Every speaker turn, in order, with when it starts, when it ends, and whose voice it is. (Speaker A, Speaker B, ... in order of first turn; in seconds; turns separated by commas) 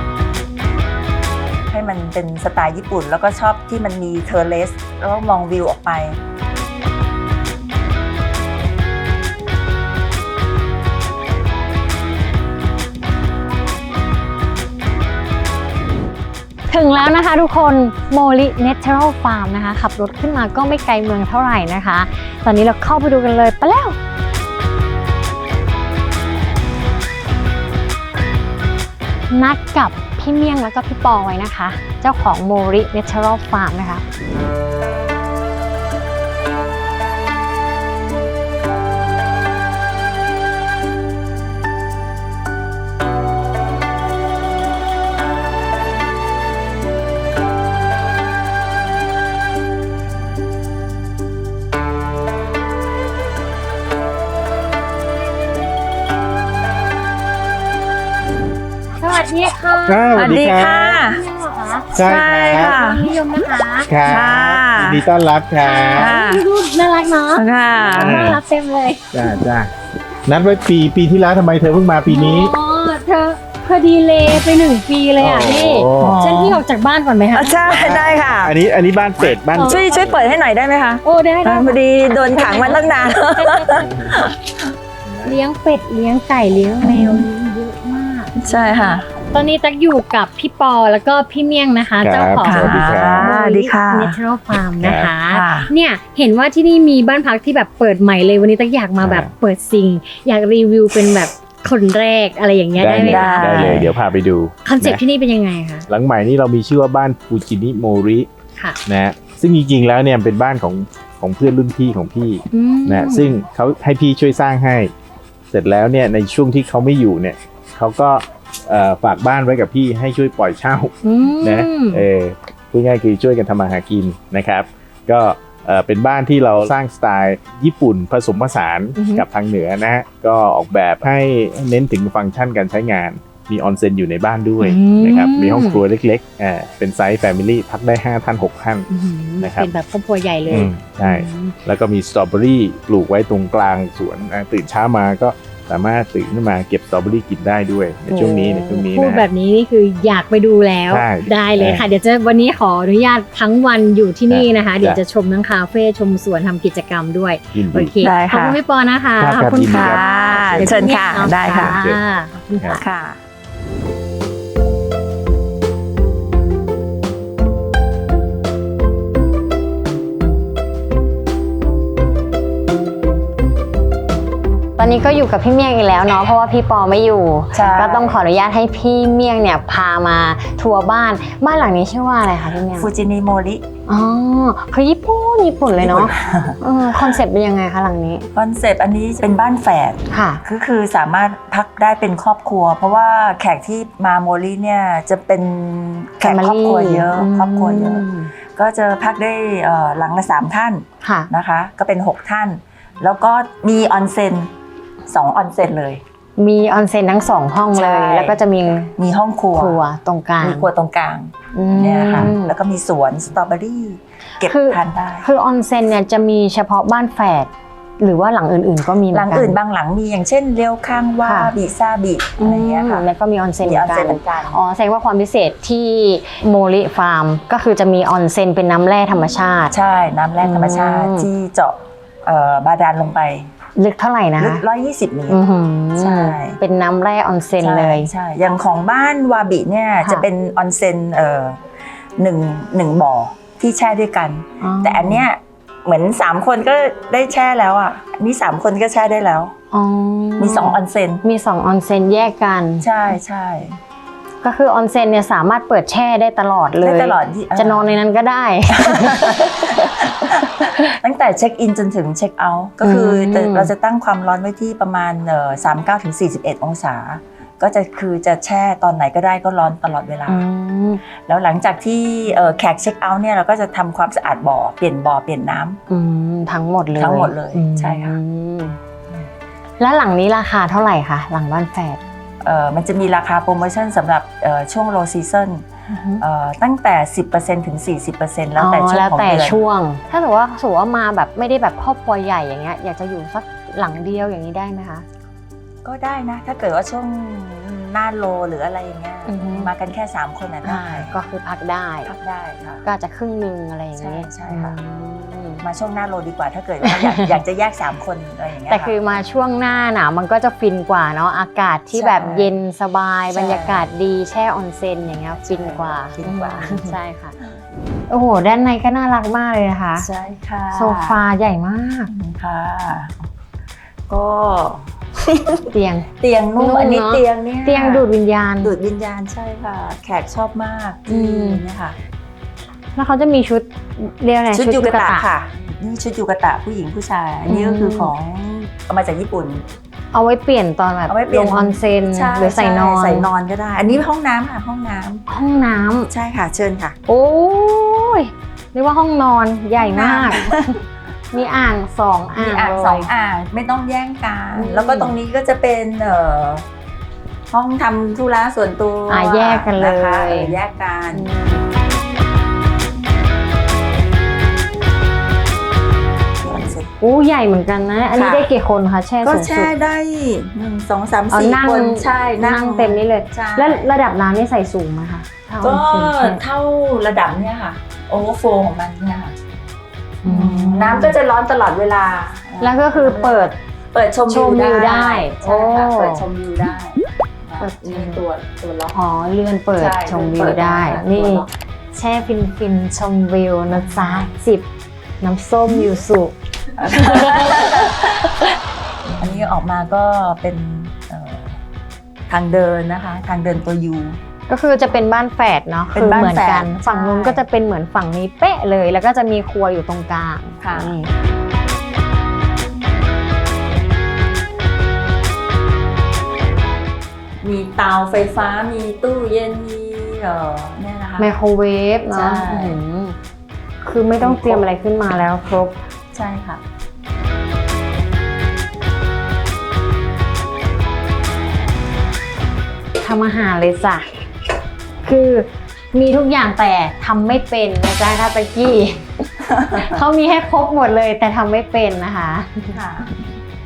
Speaker A: 1.7-6.2, Speaker B: 16.7-24.0, Speaker B: 29.3-34.0, Speaker B: 59.0-61.9, Speaker C: 59.9-61.0, Speaker A: 60.1-61.2, Speaker C: 61.9-62.8, Speaker A: 62.0-63.1, Speaker B: 62.5-63.9, Speaker C: 63.9-66.1, Speaker A: 64.0-65.1, Speaker B: 65.6-69.0, Speaker A: 66.0-66.5, Speaker A: 67.3-68.3, Speaker C: 67.8-68.4, Speaker C: 69.1-69.7, Speaker C: 70.3-72.5, Speaker B: 72.1-77.6, Speaker C: 75.2-76.2, Speaker A: 76.0-76.6, Speaker A: 77.3-78.5, Speaker C: 77.7-80.2, Speaker A: 79.2-84.5, Speaker B: 79.5-80.1, Speaker B: 81.0-83.8, Speaker C: 83.8-84.2, Speaker C: 85.1-85.4, Speaker B: 85.2-103.8, Speaker A: 86.8-87.3, Speaker A: 88.4-89.1, Speaker C: 92.0-93.3, Speaker A: 92.4-94.2, Speaker C: 94.8-95.1, Speaker A: 95.3-95.7, Speaker C: 99.0-99.3, Speaker C: 102.8-105.0, Speaker A: 103.0-104.0, Speaker B: 104.7-105.9, Speaker C: 105.9-108.3, Speaker C: 108.9-114.9, Speaker B: 112.5-113.3, Speaker C: 115.5-138.9, Speaker B: 121.0-122.0, Speaker B: 128.9-129.2, Speaker B: 134.6-135.8, Speaker B: 138.9-141.6, Speaker C: 139.4-139.7, Speaker C: 140.5-149.3, Speaker B: 148.1-162.8, Speaker C: 150.9-151.8, Speaker C: 154.3-155.0, Speaker C: 157.6-157.9, Speaker A: 158.0-158.6, Speaker C: 159.2-162.0, Speaker A: 159.7-161.8, Speaker A: 162.7-163.2, Speaker B: 174.8-182.9, Speaker A: 177.5-178.2, Speaker A: 182.7-183.6, Speaker B: 183.9-188.3, Speaker A: 185.7-187.1, Speaker A: 188.3-204.5, Speaker B: 190.1-190.4, Speaker B: 196.2-198.3, Speaker B: 201.0-201.3, Speaker A: 205.1-206.0, Speaker B: 206.4-208.9, Speaker A: 207.7-208.4, Speaker A: 209.0-209.8, Speaker B: 209.6-210.7, Speaker A: 210.4-215.3, Speaker B: 211.5-212.5, Speaker B: 214.4-219.6, Speaker A: 219.1-223.1, Speaker B: 221.2-221.6, Speaker B: 222.4-229.7, Speaker A: 223.6-224.6, Speaker A: 229.7-233.5, Speaker B: 230.4-231.3, Speaker B: 233.8-234.6, Speaker A: 234.4-235.4, Speaker B: 235.3-238.1, Speaker A: 236.0-236.6, Speaker A: 237.6-249.5, Speaker B: 244.6-245.3, Speaker B: 249.7-252.9, Speaker A: 250.4-251.2, Speaker A: 252.8-253.8, Speaker B: 254.4-259.4, Speaker A: 256.8-258.0, Speaker A: 258.7-270.5, Speaker B: 262.8-263.7, Speaker B: 270.3-271.0, Speaker A: 271.1-275.8, Speaker B: 275.9-278.8, Speaker A: 276.9-278.2, Speaker B: 279.8-282.0, Speaker A: 282.4-285.7, Speaker B: 285.9-286.2, Speaker A: 286.2-289.6, Speaker B: 288.6-295.1, Speaker A: 295.8-301.1, Speaker B: 299.3-299.7, Speaker B: 300.6-302.1, Speaker A: 302.1-302.8, Speaker B: 302.9-305.6, Speaker A: 304.0-304.8, Speaker A: 305.6-308.9, Speaker B: 306.8-307.4, Speaker B: 308.7-317.4, Speaker A: 311.9-312.5, Speaker A: 313.3-313.9, Speaker A: 315.4-317.0, Speaker B: 318.1-320.1, Speaker A: 320.0-321.2, Speaker B: 320.7-322.1, Speaker A: 322.1-323.3, Speaker A: 324.1-328.1, Speaker B: 325.7-328.7, Speaker A: 328.6-332.0, Speaker B: 331.1-331.6, Speaker B: 333.0-335.3, Speaker A: 334.5-339.7, Speaker B: 337.4-338.1, Speaker B: 340.1-343.3, Speaker A: 341.1-345.2, Speaker B: 345.3-346.1, Speaker A: 346.1-347.0, Speaker B: 347.1-350.8, Speaker A: 349.8-350.8, Speaker B: 351.3-353.1, Speaker A: 352.4-356.7, Speaker B: 354.5-355.1, Speaker A: 357.5-361.3, Speaker B: 359.1-360.6, Speaker B: 361.1-361.7, Speaker A: 366.4-366.9, Speaker B: 367.0-369.7, Speaker A: 368.1-368.5, Speaker A: 369.2-373.9, Speaker B: 371.3-376.4, Speaker A: 375.6-379.4, Speaker B: 380.2-381.2, Speaker A: 380.2-389.0, Speaker B: 382.6-383.6, Speaker B: 384.3-386.3, Speaker B: 387.6-388.2, Speaker B: 388.9-394.7, Speaker A: 389.8-391.5, Speaker A: 393.7-394.3, Speaker B: 395.2-397.9, Speaker A: 396.8-398.6, Speaker A: 399.2-401.6, Speaker A: 402.3-404.2, Speaker B: 404.5-411.1, Speaker A: 405.9-407.4, Speaker A: 410.6-411.0, Speaker A: 417.4-421.3, Speaker B: 421.2-423.2, Speaker A: 422.1-422.8, Speaker B: 423.8-425.8, Speaker A: 424.2-424.7, Speaker A: 426.1-426.6, Speaker B: 433.0-434.1, Speaker B: 435.0-442.8, Speaker A: 439.5-440.0, Speaker A: 442.7-443.2